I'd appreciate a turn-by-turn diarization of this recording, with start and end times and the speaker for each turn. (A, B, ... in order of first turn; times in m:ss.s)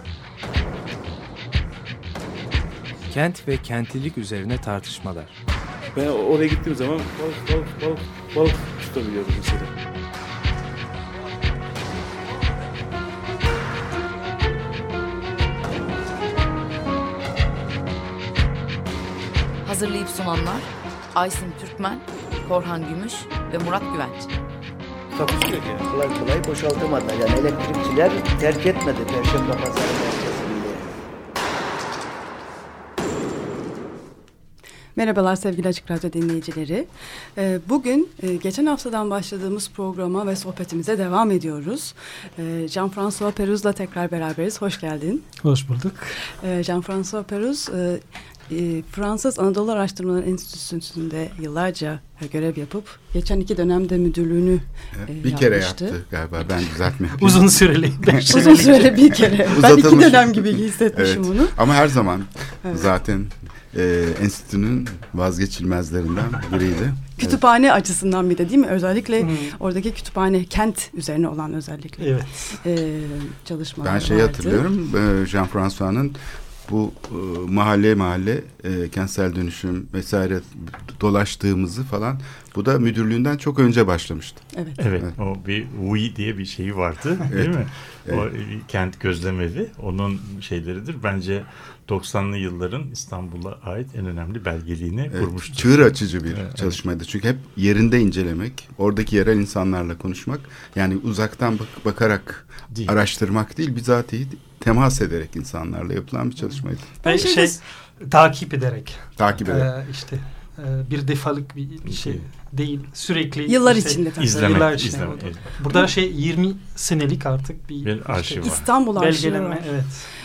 0:03.1-0:05.3 A
0:05.9-0:09.7 B
0:19.6-0:24.3 C
0:25.1-0:25.8 B
0:25.9-0:31.0 D
0:35.0-0:45.2 E
0:45.4-0:46.2 F
0:46.3-0:56.0 E
0:55.0-0:58.3 G
0:57.2-0:59.0 F
0:58.2-1:01.6 E
0:59.4-1:07.4 G
1:07.2-1:14.6 E
1:09.2-1:09.5 F
1:12.0-1:12.5 F
1:13.8-1:24.4 G
1:24.5-1:24.8 E
1:24.8-1:36.8 H
1:35.1-1:46.9 G
1:47.0-1:47.6 E
1:47.0-1:58.4 F
1:49.2-1:49.7 G
1:51.9-1:52.2 H
1:53.5-1:54.7 E
1:54.2-1:55.5 H
1:57.8-1:58.7 H
1:58.4-1:59.6 E
1:59.0-2:00.0 F